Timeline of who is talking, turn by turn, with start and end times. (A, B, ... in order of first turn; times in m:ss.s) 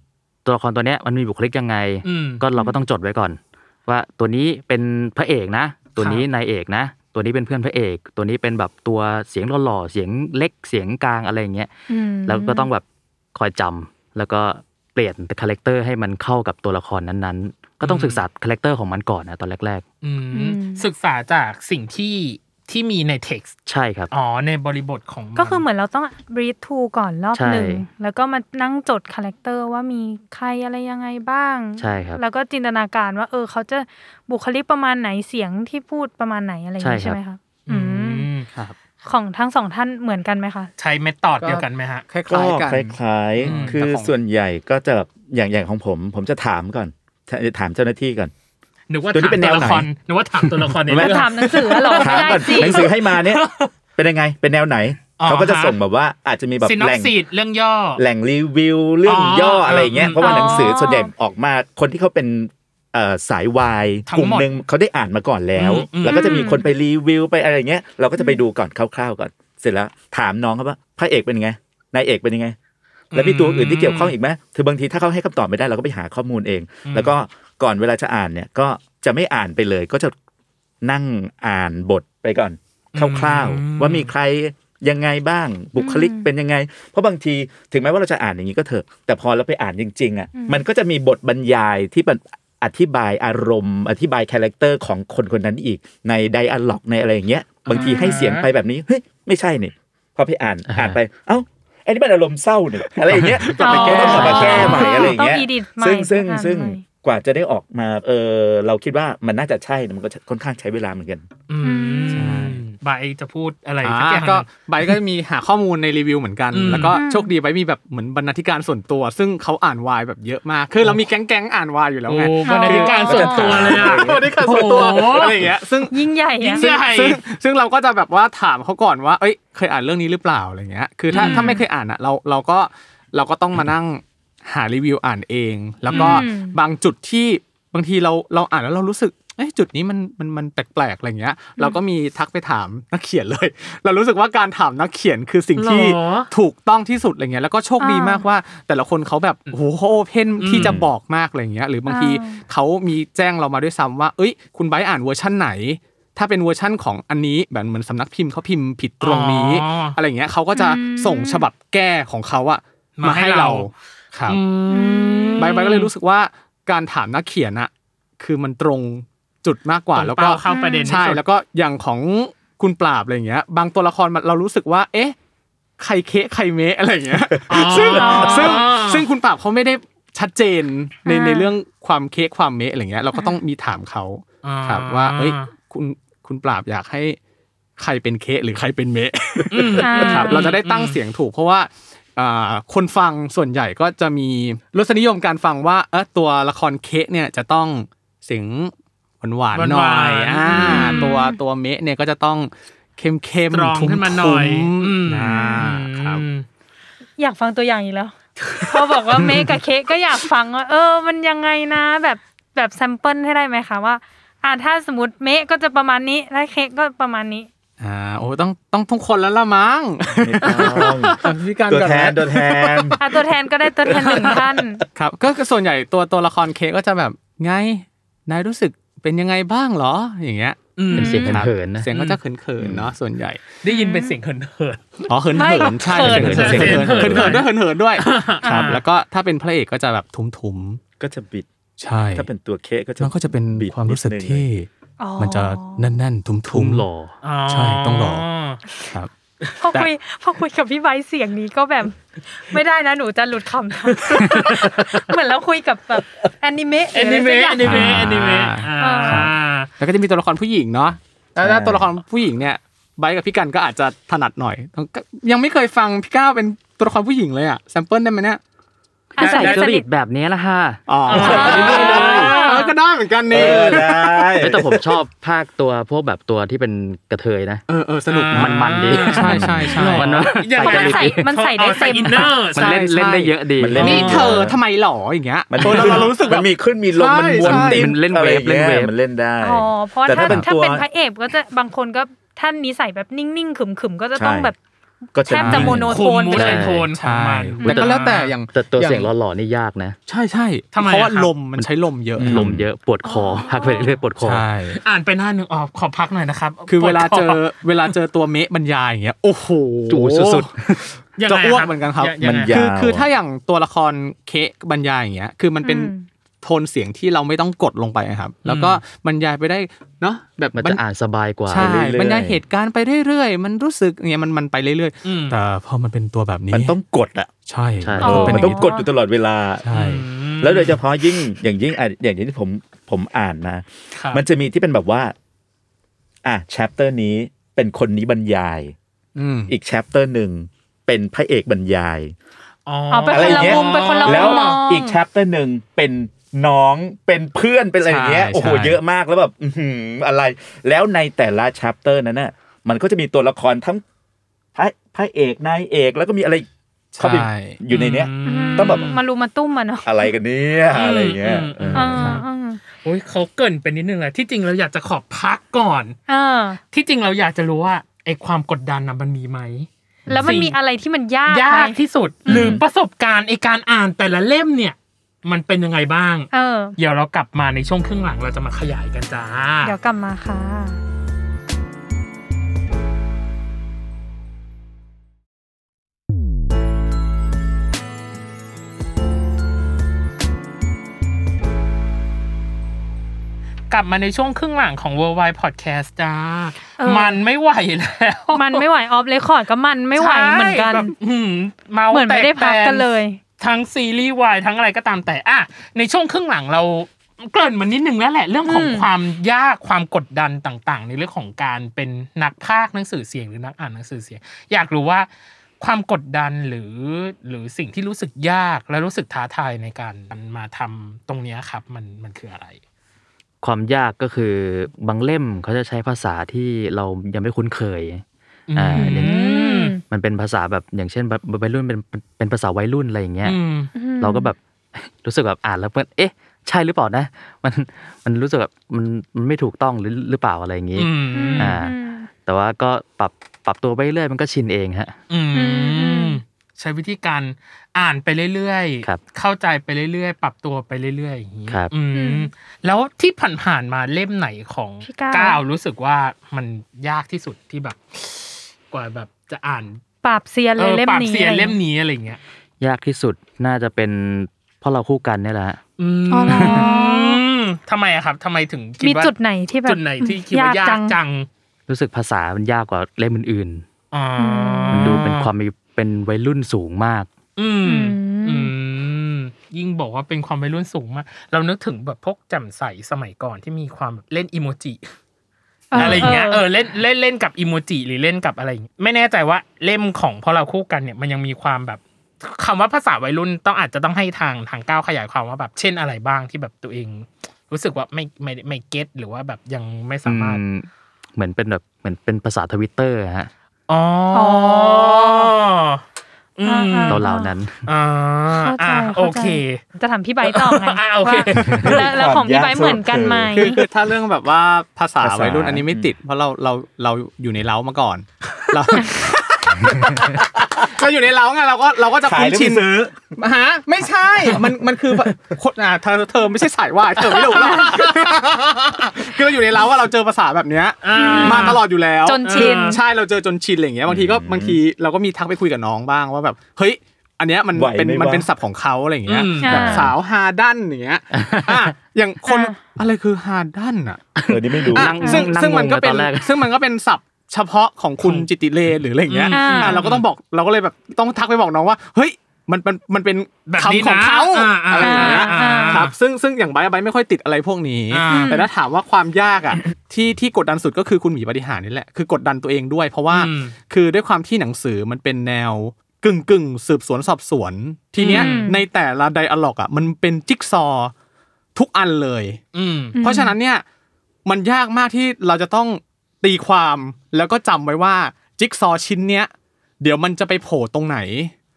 0:00.4-0:11.7 A
0:02.0-0:02.4 B
0:06.0-0:06.2 B
0:11.9-0:12.7 C
0:12.2-0:19.8 A
0:17.8-0:18.2 B
0:20.0-0:23.5 B
0:20.3-0:20.8 C
0:23.7-0:24.1 A
0:24.1-0:25.6 B
0:25.4-0:38.3 C
0:27.3-0:27.8 A
0:31.8-0:32.2 A
0:36.8-0:37.2 A
0:37.7-0:38.5 B
0:39.0-0:40.7 C
0:40.8-0:42.0 B
0:41.4-0:44.1 D
0:42.3-0:48.3 E
0:43.4-0:43.8 B
0:48.9-0:53.7 B
0:49.1-0:49.9 E
0:50.8-0:51.2 E
0:50.9-0:52.9 C
0:51.9-0:53.4 E
0:54.0-0:57.1 E
0:55.2-0:55.8 B
0:56.6-0:58.0 B
0:58.0-1:12.6 E
0:59.0-1:00.7 B
1:00.0-1:01.1 C
1:04.1-1:04.5 B
1:05.6-1:06.5 B
1:06.1-1:06.6 C
1:13.1-1:14.1 B
1:13.1-1:20.1 E
1:16.8-1:17.1 B
1:20.8-1:51.3 E
1:22.9-1:24.1 B
1:25.8-1:26.3 C
1:30.4-1:30.6 C
1:37.6-1:38.4 B
1:37.7-1:38.2 C
1:40.7-1:41.0 A
1:43.4-1:44.8 D
1:43.6-1:46.8 C
1:43.6-1:45.0 B
1:44.2-1:44.7 A
1:51.5-1:54.5 B
1:51.6-1:52.3 C
1:52.1-1:52.6 D
1:53.8-2:44.4 D
1:56.5-1:57.0 B
1:56.7-1:57.3 C
2:02.1-2:05.5 B
2:02.4-2:03.5 C
2:03.1-2:04.7 E
2:05.9-2:06.7 C
2:06.4-2:07.2 B
2:11.1-2:11.6 B
2:11.1-2:11.6 C
2:15.9-2:16.2 B
2:15.9-2:16.6 C
2:25.6-2:26.3 B
2:27.8-2:28.2 C
2:30.4-2:30.8 B
2:30.5-2:30.9 E
2:31.9-2:32.4 C
2:39.0-2:40.0 B
2:40.5-2:41.4 C
2:43.0-2:43.7 B
2:44.2-2:45.7 B
2:44.7-2:45.9 C
2:45.4-2:55.1 D
2:49.9-2:51.2 B
2:50.5-2:50.9 C
2:55.8-3:07.2 D
2:57.5-2:59.1 B
2:57.8-2:58.6 C
3:01.0-3:01.5 C
3:04.4-3:05.5 B
3:07.8-3:26.2 D
3:09.5-3:11.0 B
3:09.8-3:10.5 C
3:19.5-3:21.1 B
3:20.6-3:21.4 C
3:23.5-3:26.5 B
3:25.3-3:25.6 C
3:27.2-3:37.5 C
3:28.4-3:29.3 B
3:37.8-3:43.0 D
3:40.2-3:43.0 E
3:40.4-3:41.2 B
3:43.0-3:44.8 C
3:43.9-3:44.4 B
3:45.0-3:53.4 D
3:50.8-3:51.3 B
3:50.9-3:51.4 C
3:50.9-3:51.9 A
3:51.9-3:52.2 B
3:53.6-3:58.8 B
3:53.7-3:54.1 C
3:55.1-4:00.8 D
3:55.3-3:56.7 C
3:56.1-3:57.4 E
3:56.2-3:56.8 A
3:58.4-3:58.8 C
4:01.0-4:01.5 E
4:01.8-4:02.3 D
4:02.1-4:04.4 E
4:03.0-4:04.7 D
4:05.0-4:05.8 C
4:05.2-4:06.8 D
4:06.5-4:07.1 A
4:07.2-4:08.6 B
4:07.5-4:08.2 D
4:09.6-4:17.9 C
4:13.9-4:14.9 B
4:16.9-4:19.7 B
4:17.6-4:28.4 D
4:18.8-4:19.3 C
4:21.4-4:21.8 E
4:29.2-4:31.5 A
4:29.2-4:29.8 C
4:29.2-4:29.6 D
4:30.9-4:34.4 D
4:31.1-4:32.5 B
4:31.1-4:32.7 C
4:31.2-4:32.3 E
4:33.3-4:34.8 E
4:33.4-4:33.7 A
4:34.4-4:37.6 A
4:37.7-4:40.4 D
4:38.1-4:42.8 B
4:38.3-4:41.3 A
4:40.6-4:42.4 C
4:42.5-4:44.4 A
4:42.6-4:47.9 D
4:43.6-4:44.6 E
4:43.8-4:44.3 B
4:45.5-4:50.8 E
4:45.6-4:46.1 B
4:47.4-4:48.9 A
4:49.4-4:54.6 C
4:50.2-4:50.5 D
4:54.1-4:54.5 E
4:55.1-4:55.9 E
4:55.2-4:56.6 C
4:55.4-4:55.8 D
4:55.8-4:58.4 B
4:56.3-4:56.9 A
4:56.9-4:59.1 D
4:57.6-4:57.9 C
4:57.6-5:00.0 A
5:00.1-5:02.5 D
5:00.7-5:01.3 B
5:01.6-5:04.4 A
5:02.2-5:02.7 E
5:03.0-5:03.9 C
5:04.2-5:04.8 D
5:04.7-5:07.4 B
5:06.7-5:20.8 D
5:09.9-5:10.8 A
5:11.2-5:12.6 B
5:12.2-5:13.1 E
5:15.6-5:16.1 C
5:18.4-5:18.8 B
5:20.5-5:21.7 A
5:21.5-5:26.8 D
5:21.5-5:22.4 E
5:25.0-5:25.4 B
5:26.5-5:27.3 E
5:27.5-5:28.6 D
5:27.8-5:28.4 A
5:28.0-5:28.9 C
5:28.0-5:29.6 E
5:29.6-5:30.0 D
5:29.7-5:30.8 B
5:30.4-5:35.1 E
5:33.9-5:34.2 B
5:36.2-5:38.7 E
5:39.2-5:39.5 D
5:39.5-5:42.1 E
5:42.6-5:44.6 B
5:42.9-5:45.0 C
5:43.1-5:53.8 E
5:47.8-5:48.8 D
5:54.5-5:56.5 E
5:56.9-5:57.6 D
5:57.0-5:58.9 E
5:57.7-5:59.0 B
5:58.2-6:00.0 C
5:59.8-6:02.1 E
6:00.7-6:02.2 B
6:01.7-6:02.6 C
6:02.0-6:02.2 D
6:02.8-6:06.0 B
6:06.1-6:06.6 C
6:06.7-6:09.7 B
6:10.1-6:12.6 C
6:10.2-6:10.6 B
6:11.3-6:19.7 B
6:12.3-6:12.6 E
6:16.3-6:16.8 C
6:19.6-6:20.8 C
6:33.7-6:38.6 B
6:36.8-6:37.2 C
6:38.3-6:40.9 C
6:40.0-6:42.8 B
6:41.9-6:43.2 C
6:43.4-6:55.1 B
6:48.4-6:48.9 C
6:55.6-7:02.6 B
7:03.4-7:08.0 A
7:08.5-7:09.8 B
7:08.5-7:09.2 A
7:08.7-7:09.8 C
7:09.8-7:21.7 A
7:13.2-7:13.7 B
7:13.7-7:14.3 C
7:20.8-7:21.6 B
7:21.1-7:22.1 C
7:22.2-7:25.0 A
7:25.1-7:39.8 B
7:25.3-7:26.2 C
7:31.9-7:32.3 C
7:34.8-7:35.4 C
7:40.0-7:41.6 C
7:40.6-7:42.2 B
7:42.6-7:45.6 A
7:45.8-7:51.3 B
7:46.1-7:47.2 C
7:46.3-7:46.6 A
7:48.8-7:51.0 C
7:51.7-7:53.6 A
7:53.9-7:55.3 B
7:54.2-7:55.0 C
7:54.7-7:57.1 A
7:57.4-8:04.9 B
7:57.6-7:58.5 C
8:05.7-8:06.5 C
8:05.7-8:20.4 B
8:20.0-8:23.3 A
8:23.7-8:25.8 B
8:24.1-8:25.3 C
8:26.4-8:27.0 B
8:26.4-8:27.3 C
8:26.9-8:27.6 A
8:27.6-8:29.6 B
8:28.4-8:33.6 C
8:30.2-8:31.8 B
8:31.6-8:33.5 E
8:33.3-9:04.0 D
8:35.0-8:35.9 E
8:42.0-8:42.9 E
8:47.1-8:47.9 B
8:50.8-8:51.6 B
8:50.9-8:52.8 C
8:52.2-8:52.8 B
8:53.8-8:54.6 E
8:57.5-8:58.3 E
8:59.0-8:59.8 B
8:59.4-8:59.9 C
9:01.1-9:01.7 A
9:02.2-9:02.6 C
9:04.2-9:06.4 A
9:04.3-9:04.9 E
9:04.7-9:30.9 D
9:05.0-9:05.3 C
9:08.0-9:08.3 B
9:09.1-9:10.0 B
9:09.3-9:09.9 C
9:13.5-9:15.9 B
9:14.8-9:15.8 C
9:17.9-9:18.4 B
9:18.1-9:18.5 C
9:23.1-9:23.6 B
9:28.0-9:28.5 B
9:28.0-9:28.6 C
9:31.5-9:32.4 D
9:32.5-9:33.0 B
9:33.0-9:33.3 C
9:33.0-9:33.6 D
9:34.2-9:41.3 D